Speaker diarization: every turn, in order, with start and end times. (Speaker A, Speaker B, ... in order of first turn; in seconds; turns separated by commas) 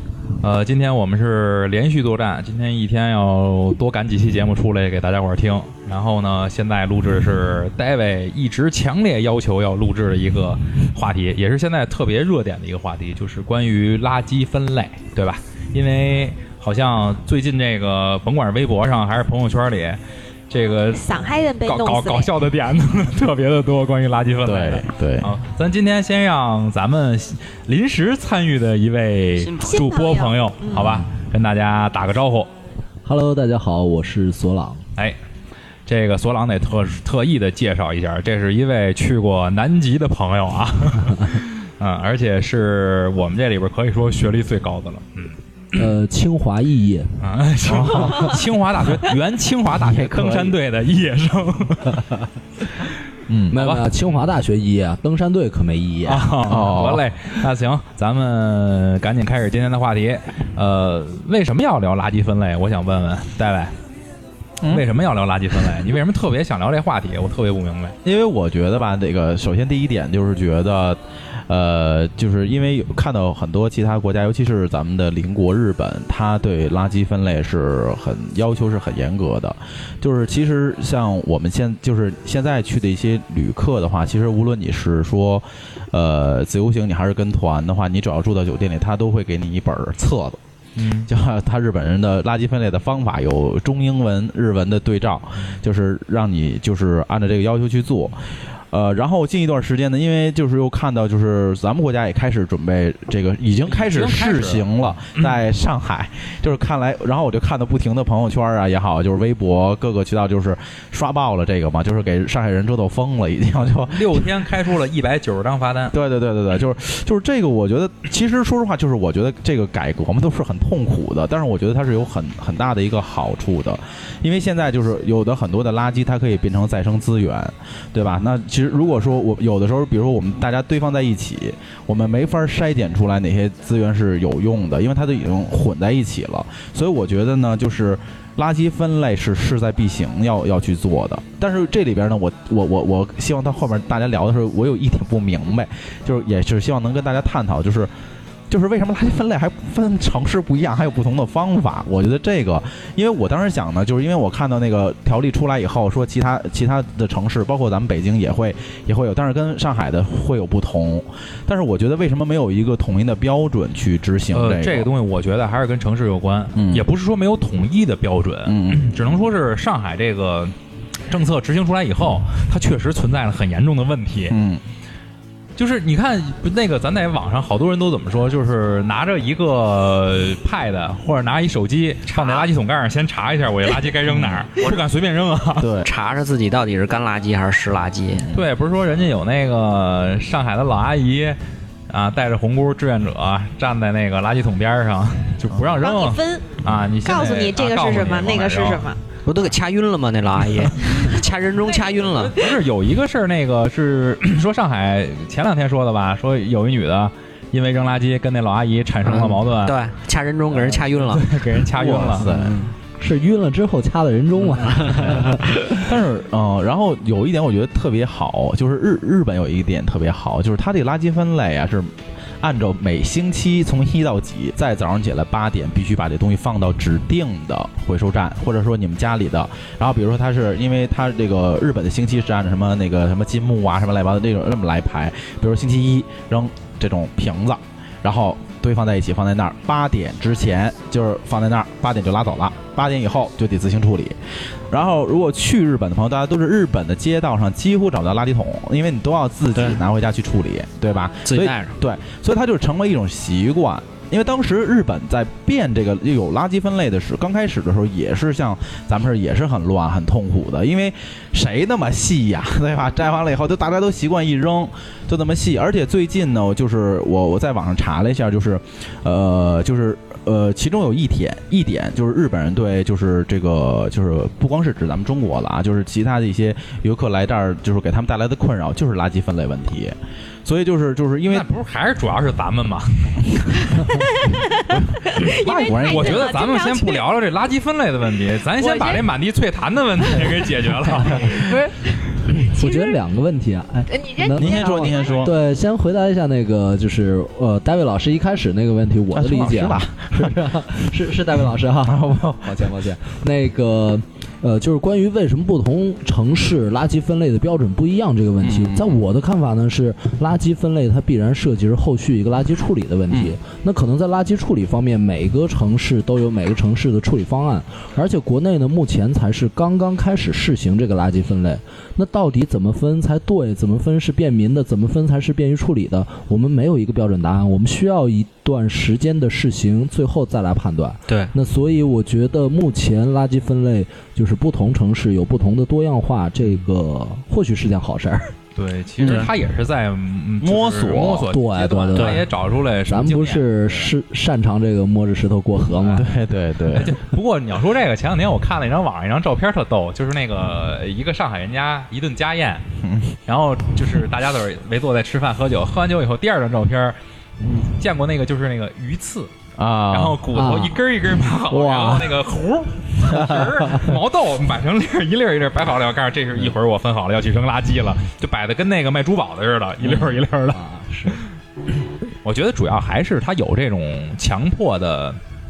Speaker A: 0.4-32.5, Speaker B: 20.9-22.3, Speaker C: 24.4-25.3, Speaker D: 29.4-29.7, Speaker B: 29.6-31.0, Speaker C: 30.8-31.1, Speaker E: 33.0-34.8, Speaker A: 35.9-45.9, Speaker E: 45.8-47.1, Speaker A: 47.2-52.0, Speaker C: 47.7-48.4, Speaker C: 49.8-50.6, Speaker C: 53.3-53.5, Speaker A: 53.5-53.9, Speaker E: 53.5-56.5, Speaker A: 56.1-63.8, Speaker C: 56.5-57.1, Speaker C: 64.6-64.9, Speaker A: 64.7-68.0, Speaker C: 68.0-90.4, Speaker A: 90.8-91.1, Speaker C: 91.1-114.3, Speaker A: 103.7-105.4, Speaker A: 113.9-116.0, Speaker C: 115.9-147.9, Speaker C: 148.5-164.9, Speaker A: 164.3-170.6, Speaker C: 166.6-166.8, Speaker C: 168.5-168.9, Speaker A: 171.1-174.4, Speaker C: 174.3-174.6, Speaker A: 175.6-185.7, Speaker D: 182.1-182.5, Speaker C: 184.1-184.5, Speaker C: 185.6-185.9, Speaker D: 185.8-188.3, Speaker A: 188.3-198.9, Speaker C: 195.5-195.8, Speaker B: 195.8-199.0, Speaker D: 199.3-202.3, Speaker B: 201.7-202.6, Speaker A: 202.1-209.8, Speaker D: 209.1-211.3, Speaker A: 210.5-212.3, Speaker C: 211.7-212.6, Speaker D: 212.2-212.7, Speaker E: 213.0-215.7, Speaker D: 214.6-215.2, Speaker C: 215.7-244.2, Speaker C: 244.7-281.5, Speaker D: 249.6-249.8, Speaker D: 251.2-251.7, Speaker A: 281.3-283.9, Speaker B: 283.7-287.1, Speaker C: 284.7-286.3, Speaker A: 285.8-291.5, Speaker B: 288.6-289.1, Speaker B: 291.2-293.0, Speaker E: 292.4-338.3, Speaker B: 293.9-295.3, Speaker C: 294.4-295.3, Speaker C: 299.1-300.4, Speaker C: 301.9-302.7, Speaker C: 308.4-309.0, Speaker C: 313.1-313.4, Speaker D: 331.1-331.3, Speaker A: 338.6-343.9, Speaker C: 339.0-339.3, Speaker D: 339.0-339.3, Speaker C: 340.4-341.3, Speaker E: 341.3-342.3, Speaker D: 341.9-342.2, Speaker E: 342.9-346.1, Speaker A: 345.7-352.7, Speaker C: 345.9-347.0, Speaker C: 352.8-353.2, Speaker A: 353.3-359.3, Speaker C: 359.6-360.2, Speaker A: 359.9-371.2, Speaker E: 360.3-360.8, Speaker E: 361.5-362.1, Speaker E: 363.3-363.8, Speaker C: 369.9-370.1, Speaker E: 370.5-371.2, Speaker A: 372.2-375.2